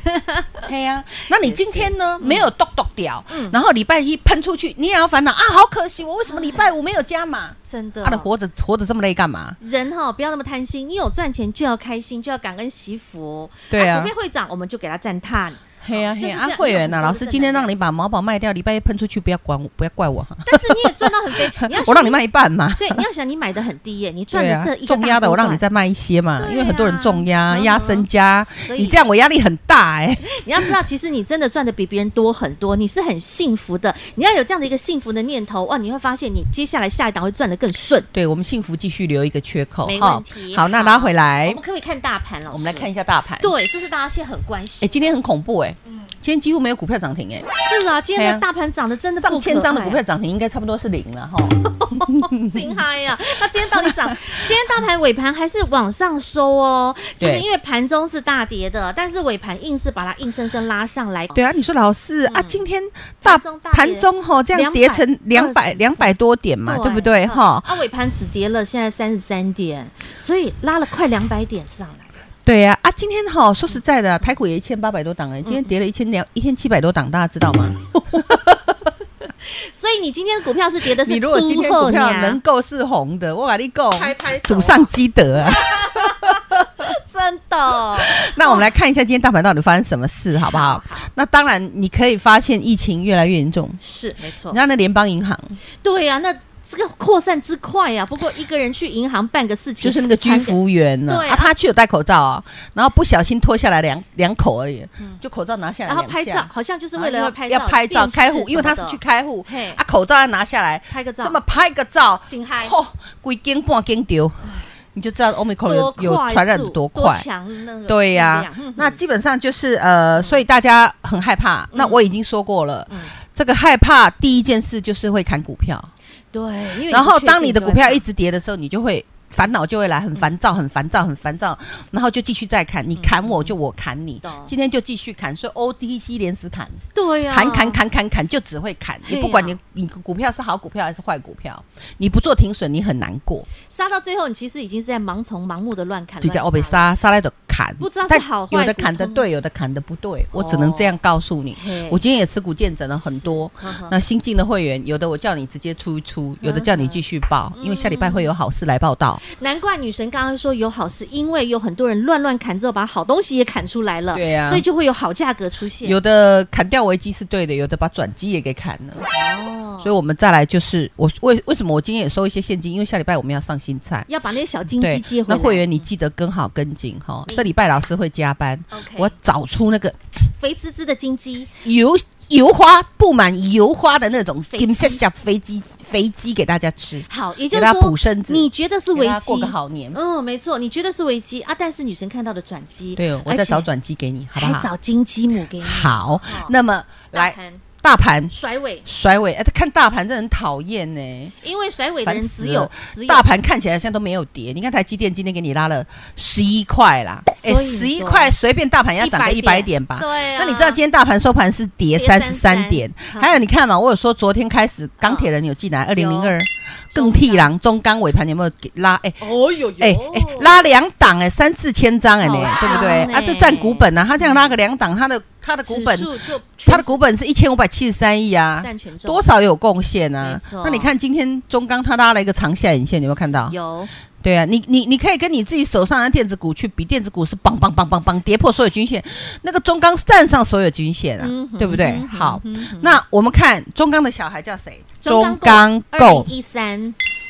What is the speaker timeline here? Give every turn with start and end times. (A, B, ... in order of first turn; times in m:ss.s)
0:00.1-0:00.6 A
0:00.6-0:09.6 B
0:01.2-0:02.5 A
0:03.3-0:03.6 A
0:06.3-0:06.6 A
0:07.7-0:08.3 A
0:09.6-0:17.7 A
0:13.7-0:14.1 B
0:15.8-0:23.0 B
0:20.4-0:22.2 A
0:22.8-0:25.6 A
0:24.3-0:30.6 B
0:26.4-0:28.1 A
0:28.6-0:29.0 A
0:30.3-0:38.1 A
0:38.1-0:41.6 B
0:39.8-0:42.9 A
0:42.5-0:43.5 B
0:43.4-0:45.1 A
0:44.8-0:47.5 B
0:47.5-0:50.0 A
0:48.1-0:48.4 B
0:49.1-0:52.8 B
0:51.6-1:01.4 A
0:53.7-0:53.9 B
0:57.2-0:57.4 B
1:01.3-1:07.7 B
1:02.3-1:02.6 A
1:03.2-1:06.1 A
1:06.6-1:12.2 A
1:12.4-1:18.6 B
1:19.4-1:22.4 A
1:21.0-1:26.9 B
1:23.9-1:28.6 A
1:28.0-1:33.8 B
1:30.4-1:31.1 A
1:33.8-1:34.6 A
1:34.5-1:35.6 B
1:35.8-1:41.5 A
1:39.8-1:57.2 B
1:45.9-1:49.8 A
1:50.9-1:51.4 A
1:52.3-1:52.8 A
1:55.6-1:59.0 A
1:57.9-2:05.9 B
2:00.2-2:00.4 A
2:01.7-2:02.0 A
2:06.3-2:08.0 A
2:06.9-2:23.5 B
2:12.9-2:13.5 A
2:14.2-2:14.5 A
2:16.9-2:17.8 A
2:19.0-2:19.6 A
2:23.7-2:26.9 A
2:26.2-2:39.2 B
2:27.8-2:29.3 A
2:30.3-2:30.9 A
2:31.5-2:32.0 A
2:33.0-2:33.9 A
2:36.4-2:37.0 A
2:37.6-2:38.3 A
2:39.2-2:46.0 A
2:44.1-2:44.6 B
2:45.8-2:49.0 B
2:49.1-2:49.9 A
2:49.8-2:54.1 B
2:54.1-2:55.7 A
2:54.8-3:00.0 B
2:58.7-2:59.1 A
3:00.4-3:01.5 A
3:01.6-3:10.0 B
3:04.5-3:05.0 A
3:07.1-3:13.7 A
3:13.0-3:14.7 B
3:14.4-3:16.5 A
3:15.6-3:18.3 B
3:17.1-3:17.6 A
3:18.3-3:18.8 A
3:18.8-3:21.4 B
3:21.4-3:23.2 A
3:22.0-3:39.2 B
3:27.4-3:28.3 A
3:29.0-3:30.8 A
3:31.9-3:33.4 A
3:35.0-3:35.3 A
3:35.9-3:36.4 A
3:36.9-3:37.5 A
3:39.2-3:40.6 A
3:39.8-3:46.1 B
3:42.2-3:44.5 A
3:45.6-3:47.0 A
3:46.6-3:53.6 B
3:48.6-3:49.3 A
3:50.2-3:50.9 A
3:53.5-3:53.9 A
3:54.2-4:06.3 B
4:01.2-4:03.0 A
4:05.0-4:07.0 A